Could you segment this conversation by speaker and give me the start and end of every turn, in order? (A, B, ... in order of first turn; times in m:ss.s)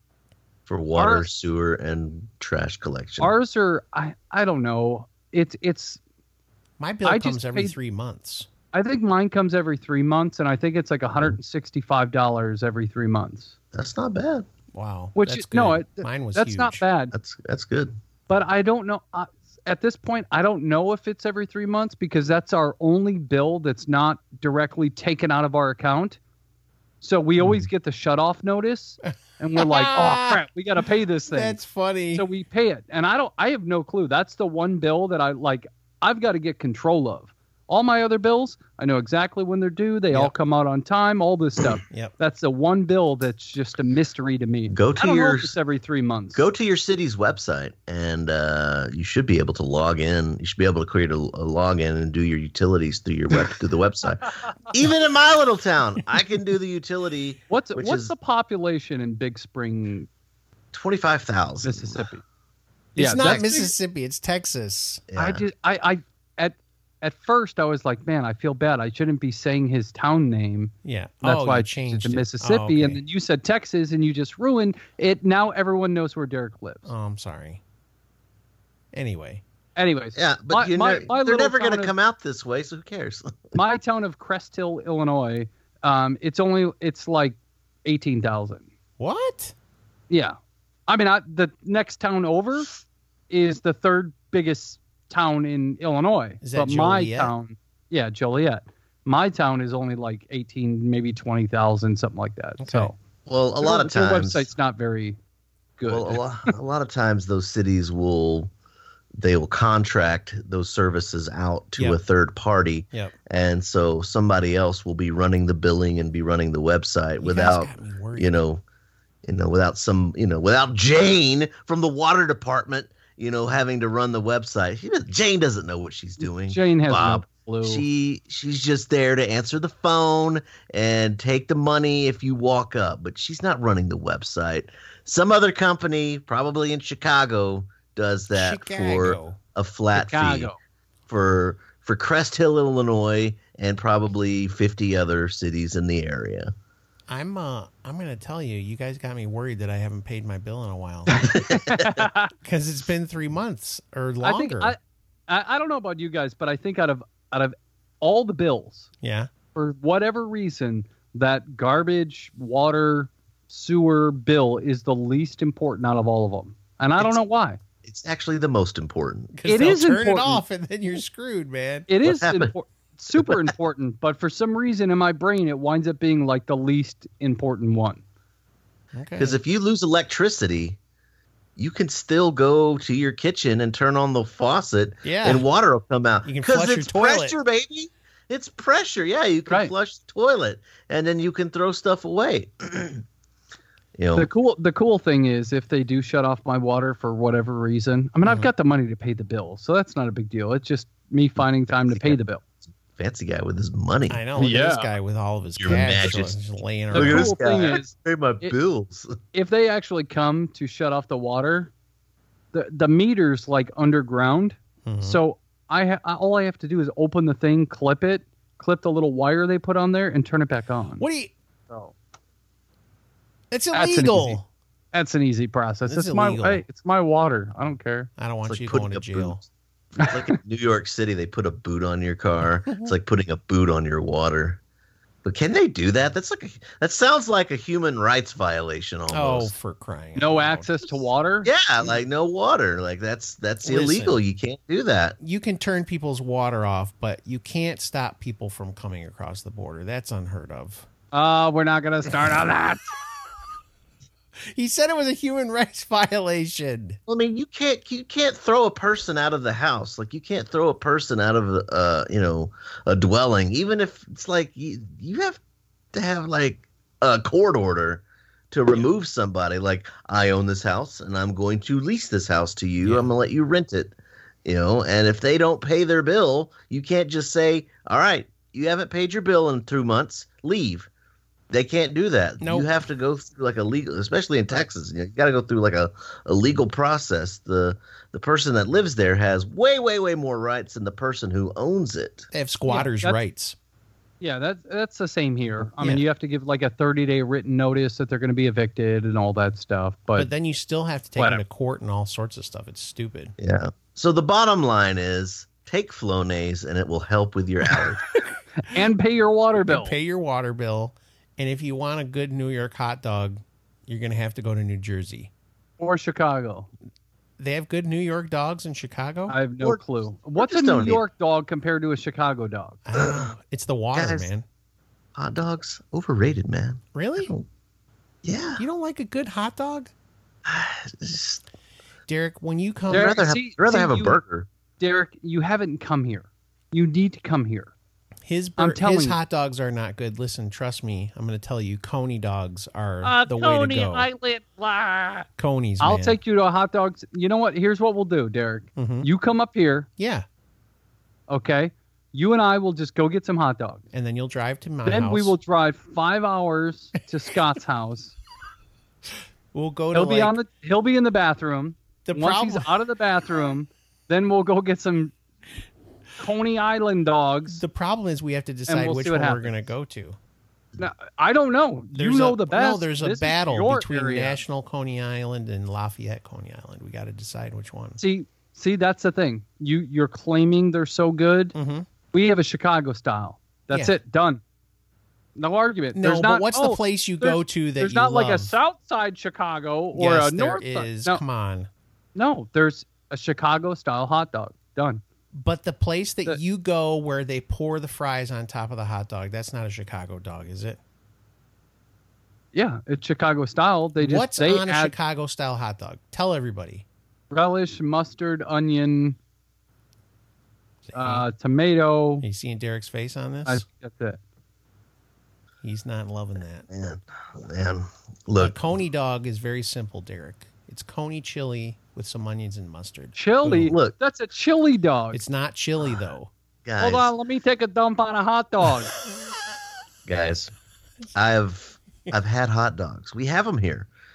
0:00.7-0:03.3 A
0:01.0-0:01.3 B
0:03.2-0:06.0 B
0:06.8-0:08.5 C
0:07.0-0:07.8 B
0:08.7-0:13.5 B
0:13.7-0:14.5 A
0:14.7-0:16.8 C
0:15.2-0:17.1 B
0:17.1-0:18.0 A
0:18.3-0:26.2 B
0:27.0-0:31.6 B
0:29.6-0:30.4 C
0:31.3-0:32.3 C
0:32.2-0:46.4 B
0:41.9-0:42.2 C
0:44.7-0:45.6 A
0:46.4-0:58.1 A
0:57.5-1:00.1 B
1:00.7-1:02.1 A
1:01.6-1:02.2 B
1:03.0-1:03.7 B
1:03.0-1:05.1 C
1:05.1-1:05.4 A
1:05.2-1:16.9 B
1:10.8-1:13.0 C
1:16.8-1:17.6 C
1:18.9-1:19.4 C
1:19.8-1:21.9 B
1:20.2-1:23.6 A
1:23.6-1:28.7 B
1:29.0-1:29.5 C
1:30.1-1:30.4 B
1:30.9-1:32.7 B
1:33.3-1:43.0 B
1:36.4-1:37.3 C
1:42.6-1:42.9 C
1:43.3-1:44.5 A
1:43.6-1:45.2 B
1:45.8-1:46.5 B
1:45.9-1:48.5 A
1:49.2-1:58.6 A
1:57.2-1:58.4 C
1:59.2-2:20.5 A
2:06.2-2:07.8 B
2:18.4-2:19.4 C
2:20.0-2:20.6 B
2:21.1-2:26.5 A
2:27.1-2:31.2 C
2:31.1-2:32.3 B
2:31.2-2:32.1 A
2:32.4-2:34.8 C
2:34.2-2:38.9 B
2:39.0-2:39.3 C
2:39.6-2:47.6 B
2:47.8-2:49.3 A
2:49.3-2:51.9 C
2:49.5-2:50.4 B
2:51.9-2:58.0 B
2:52.0-2:52.5 A
2:53.1-2:53.5 A
2:58.9-2:59.4 C
2:59.2-3:00.8 A
3:01.6-3:13.0 A
3:05.0-3:05.4 C
3:06.2-3:07.4 C
3:14.0-3:14.3 A
3:14.2-3:22.4 B
3:18.2-3:18.5 C
3:21.7-3:22.2 A
3:23.0-3:24.2 A
3:24.1-3:27.4 C
3:24.4-3:24.9 B
3:25.6-3:26.4 A
3:26.9-3:29.2 A
3:26.9-3:27.9 B
3:29.3-3:31.7 B
3:32.5-3:41.0 B
3:34.8-3:35.2 C
3:41.0-3:41.3 C
3:41.7-3:41.9 B
3:43.5-3:44.5 C
3:43.7-3:44.4 B
3:44.9-3:48.1 B
3:45.9-3:46.6 C
3:48.2-3:49.4 C
3:48.5-3:49.5 A
3:50.0-3:54.6 A
3:55.2-3:59.5 A
3:59.1-4:00.9 C
4:00.2-4:01.5 B
4:01.4-4:05.2 A
4:03.6-4:04.2 C
4:05.2-4:10.9 C
4:11.1-4:12.9 B
4:14.5-4:17.0 C
4:17.1-4:25.4 A
4:25.9-4:40.9 A
4:32.8-4:33.1 C
4:41.5-4:52.3 A
4:42.4-4:42.7 C
4:52.3-4:53.6 C
4:52.7-4:53.2 B
4:54.2-5:00.3 B
4:55.8-4:56.0 C
5:00.2-5:03.3 C
5:03.4-5:08.0 A
5:08.6-5:10.0 B
5:09.6-5:15.3 C
5:15.8-5:16.7 B
5:17.4-5:19.4 C
5:19.3-5:22.8 B
5:20.4-5:21.0 A
5:22.8-5:24.4 C
5:22.9-5:23.3 A
5:23.9-5:24.3 A
5:25.2-5:27.4 A
5:27.0-5:27.3 C
5:28.2-5:28.6 A
5:28.6-5:29.9 C
5:30.4-5:31.4 A
5:32.1-5:33.2 C
5:32.9-5:34.2 B
5:32.9-5:34.5 A
5:34.8-5:37.7 B
5:38.2-5:44.1 C
5:38.6-5:39.2 B
5:43.0-5:45.3 B
5:45.4-5:46.2 C
5:45.8-5:49.9 B
5:48.8-5:49.1 C
5:50.0-5:50.2 C
5:51.3-5:53.8 B
5:53.9-5:55.4 C
5:54.9-5:58.2 B
5:59.5-6:00.4 C
5:59.9-6:05.1 B
6:02.1-6:02.7 C
6:06.2-6:07.6 B
6:07.5-6:10.2 C
6:08.7-6:09.6 B
6:10.8-6:14.4 B
6:11.9-6:18.0 C
6:18.0-6:21.6 B
6:21.5-6:21.9 C
6:22.1-6:24.4 B
6:23.7-6:24.0 C
6:25.4-6:31.2 B
6:26.0-6:28.6 C
6:30.0-6:31.7 C
6:32.2-6:35.0 B
6:35.3-6:40.8 C
6:42.5-6:44.9 B
6:44.0-6:46.8 C
6:47.3-6:49.2 B
6:50.9-6:51.3 C
6:50.9-6:52.2 B
6:52.2-6:53.6 C
6:53.5-6:54.2 B
6:55.6-6:56.6 C
6:56.7-6:58.6 A
6:58.4-7:03.7 C
7:03.1-7:05.2 B
7:03.6-7:03.9 A
7:05.1-7:06.3 C
7:06.6-7:07.1 A
7:06.8-7:08.9 B
7:10.1-7:10.5 A
7:11.2-7:13.9 A